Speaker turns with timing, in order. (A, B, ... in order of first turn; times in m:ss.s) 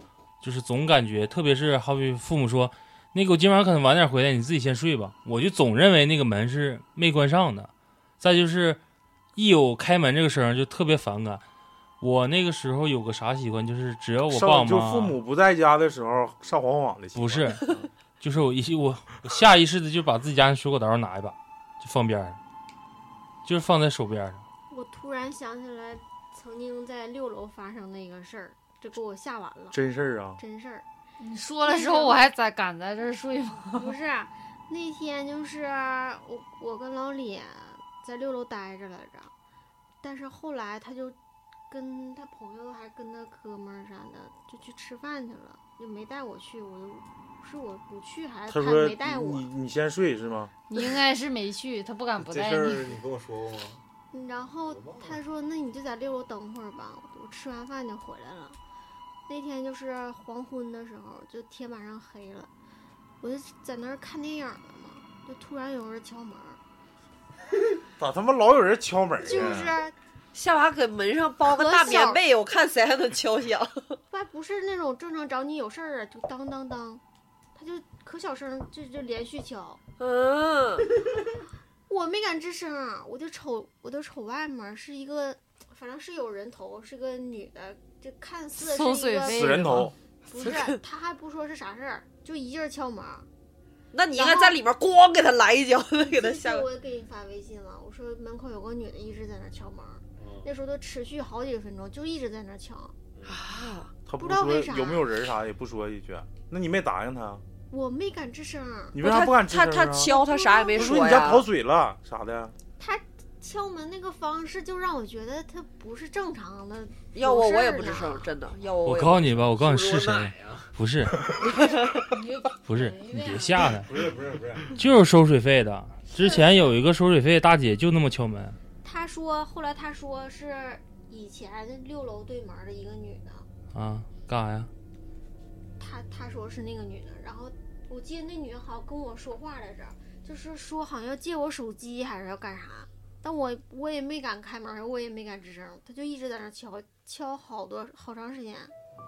0:00.4-0:08.8 A
0:09.4-0:11.4 A
0:12.0-0:15.2 A
0:14.3-0:17.9 B
0:17.1-0:22.4 A
0:23.4-0:24.4 A
0:24.7-0:29.8 C
0:29.7-0:30.4 B
0:30.4-0:30.8 C
0:31.2-0:34.0 D
0:31.6-0:32.2 C
0:33.7-0:39.3 C
0:40.0-0:41.2 C
0:41.7-0:49.5 C
0:48.5-0:50.5 B
0:50.7-0:52.9 D
0:52.2-0:53.8 E
0:54.1-0:58.6 C
0:54.7-0:55.2 E
0:59.3-1:02.5 C
1:03.2-1:06.6 C
1:08.0-1:09.7 B
1:09.2-1:10.0 C
1:10.3-1:14.0 F
1:11.4-1:12.2 C
1:14.1-1:17.0 C
1:17.6-1:19.8 C
1:20.0-1:20.9 F
1:21.9-1:29.6 C
1:28.6-1:29.9 D
1:29.3-1:29.9 B
1:30.3-1:33.3 C
1:30.4-1:30.8 F
1:33.9-1:36.7 F
1:34.1-1:34.6 C
1:36.0-1:43.0 C
1:40.2-1:40.5 E
1:43.2-1:43.9 F
1:44.1-1:47.4 B
1:44.2-1:45.1 C
1:47.7-1:49.0 C
1:48.9-1:50.1 B
1:49.0-1:51.5 F
1:50.0-1:51.3 C
1:50.7-1:52.6 B
1:52.8-1:58.3 C
1:57.1-1:59.4 F
1:58.8-2:01.2 A
1:59.4-2:00.7 E
2:02.1-2:03.6 D
2:02.6-2:03.9 A
2:03.7-2:04.8 E
2:04.7-2:08.6 A
2:06.3-2:06.6 D
2:08.8-2:13.4 C
2:13.7-2:14.7 A
2:15.8-2:28.7 C